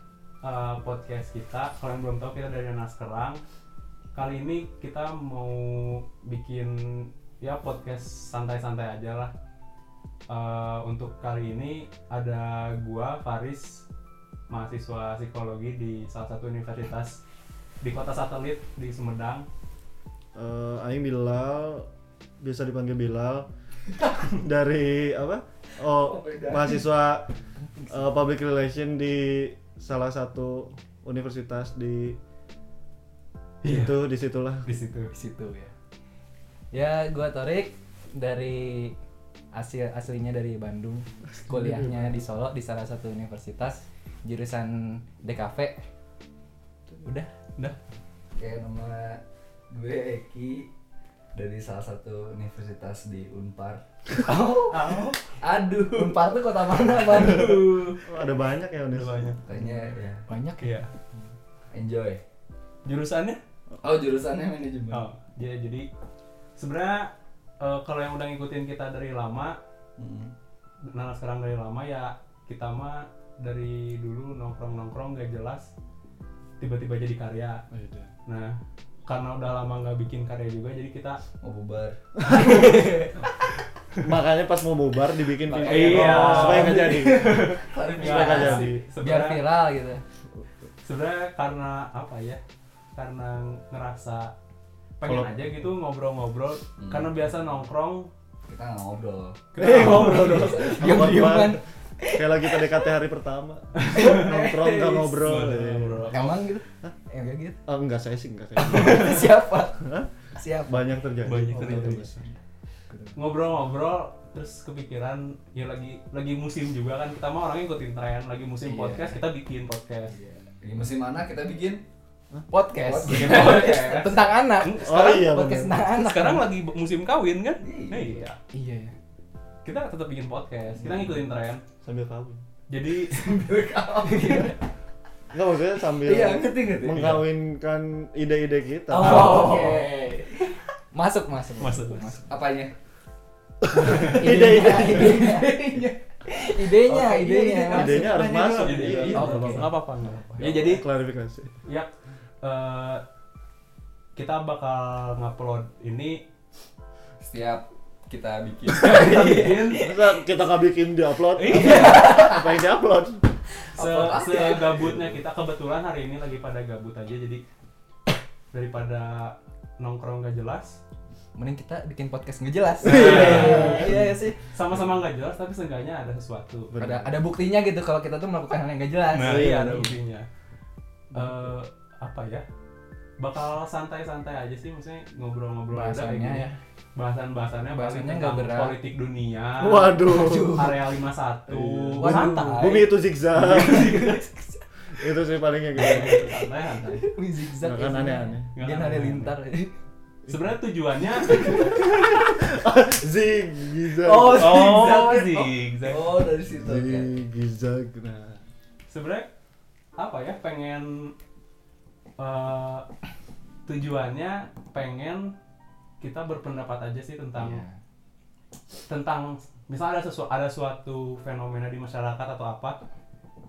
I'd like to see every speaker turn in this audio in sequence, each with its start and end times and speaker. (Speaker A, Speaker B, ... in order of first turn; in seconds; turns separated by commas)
Speaker A: 0.4-3.4, Speaker A: 4.1-9.3, Speaker A: 10.3-13.9, Speaker A: 14.5-17.2, Speaker A: 17.8-19.5, Speaker B: 20.4-21.9, Speaker B: 22.4-23.5, Speaker B: 24.3-27.3, Speaker C: 26.0-26.8, Speaker B: 27.9-32.2, Speaker A: 33.6-34.0, Speaker B: 33.6-34.7, Speaker A: 34.6-35.1, Speaker D: 35.1-35.7, Speaker D: 36.7-39.0, Speaker D: 39.5-45.8, Speaker B: 41.4-42.1, Speaker D: 47.0-47.3, Speaker C: 48.4-50.7, Speaker C: 51.3-53.8, Speaker D: 54.3-55.0, Speaker A: 54.3-55.2, Speaker C: 55.4-56.3, Speaker D: 55.8-57.9, Speaker A: 57.1-58.0, Speaker B: 58.0-59.4, Speaker A: 58.9-59.4, Speaker C: 59.4-60.3, Speaker D: 60.3-61.2, Speaker A: 60.6-60.9, Speaker C: 61.7-62.2, Speaker A: 62.9-63.4, Speaker C: 63.8-65.0, Speaker A: 64.9-65.9, Speaker A: 66.6-69.6, Speaker C: 70.0-70.3, Speaker A: 70.8-75.7, Speaker A: 76.6-77.6, Speaker B: 77.7-78.1, Speaker A: 78.3-81.2, Speaker C: 81.4-83.1, Speaker B: 84.0-87.5, Speaker C: 85.5-88.7, Speaker A: 85.6-89.4, Speaker B: 88.0-88.8, Speaker D: 89.0-90.0, Speaker A: 90.8-92.4, Speaker A: 93.0-94.3, Speaker A: 95.0-98.1, Speaker B: 95.0-95.3, Speaker C: 96.8-97.2, Speaker C: 98.5-101.0, Speaker A: 99.5-100.6, Speaker B: 99.6-106.2, Speaker D: 100.3-102.8, Speaker A: 103.8-106.3, Speaker D: 104.0-105.1, Speaker D: 106.1-107.6, Speaker B: 107.7-110.1, Speaker D: 108.6-110.9, Speaker A: 108.8-109.2, Speaker B: 110.7-112.2, Speaker A: 111.2-112.3, Speaker D: 111.6-112.1, Speaker D: 112.9-113.2, Speaker A: 113.2-120.1, Speaker D: 118.6-119.2, Speaker C: 120.2-121.9, Speaker D: 122.5-126.5, Speaker C: 122.8-124.3, Speaker A: 123.1-125.3, Speaker B: 124.8-125.8, Speaker A: 125.9-128.4, Speaker C: 127.6-128.2, Speaker D: 128.5-128.9, Speaker A: 129.6-131.6, Speaker C: 130.8-131.1, Speaker B: 131.8-132.4, Speaker A: 132.7-133.4, Speaker C: 133.1-134.6, Speaker B: 135.3-139.5, Speaker C: 136.0-137.3, Speaker C: 138.9-140.6, Speaker D: 139.0-139.9, Speaker A: 139.0-139.7, Speaker D: 140.9-142.3, Speaker A: 141.6-142.2, Speaker C: 142.3-142.7, Speaker B: 143.6-145.2, Speaker D: 143.9-145.6, Speaker C: 143.9-149.6, Speaker D: 146.4-148.2, Speaker B: 147.7-149.7, Speaker A: 148.4-150.8, Speaker D: 149.0-150.5, Speaker B: 150.4-151.6, Speaker A: 151.7-151.9, Speaker A: 152.4-153.0, Speaker A: 154.2-156.2, Speaker C: 157.2-159.8, Speaker A: 158.8-159.9, Speaker D: 158.9-159.5, Speaker B: 159.8-163.3, Speaker A: 161.4-162.1, Speaker D: 161.5-162.5, Speaker C: 161.9-162.3, Speaker A: 163.7-167.4, Speaker C: 163.7-164.8, Speaker A: 168.5-170.8, Speaker D: 171.3-174.4, Speaker A: 172.8-176.7, Speaker B: 172.9-174.1, Speaker B: 176.7-177.2, Speaker D: 176.8-179.9, Speaker A: 179.1-180.3, Speaker B: 179.2-179.9, Speaker A: 181.1-182.5, Speaker A: 183.2-194.2, Speaker D: 185.7-186.6, Speaker D: 187.7-188.8, Speaker B: 189.6-190.6, Speaker D: 190.0-190.8, Speaker B: 191.5-193.9, Speaker D: 192.0-192.9, Speaker D: 193.5-194.6, Speaker B: 194.9-196.3, Speaker A: 195.8-197.1, Speaker D: 195.8-199.7, Speaker B: 197.6-198.5, Speaker A: 198.6-199.4, Speaker A: 200.3-201.8, Speaker B: 201.5-204.7, Speaker C: 204.0-207.2, Speaker A: 204.3-206.3, Speaker B: 206.6-208.4, Speaker A: 208.9-209.3, Speaker A: 210.0-211.1, Speaker A: 212.2-212.9, Speaker A: 213.7-215.3, Speaker A: 216.0-217.6, Speaker D: 217.4-217.8, Speaker A: 218.9-222.8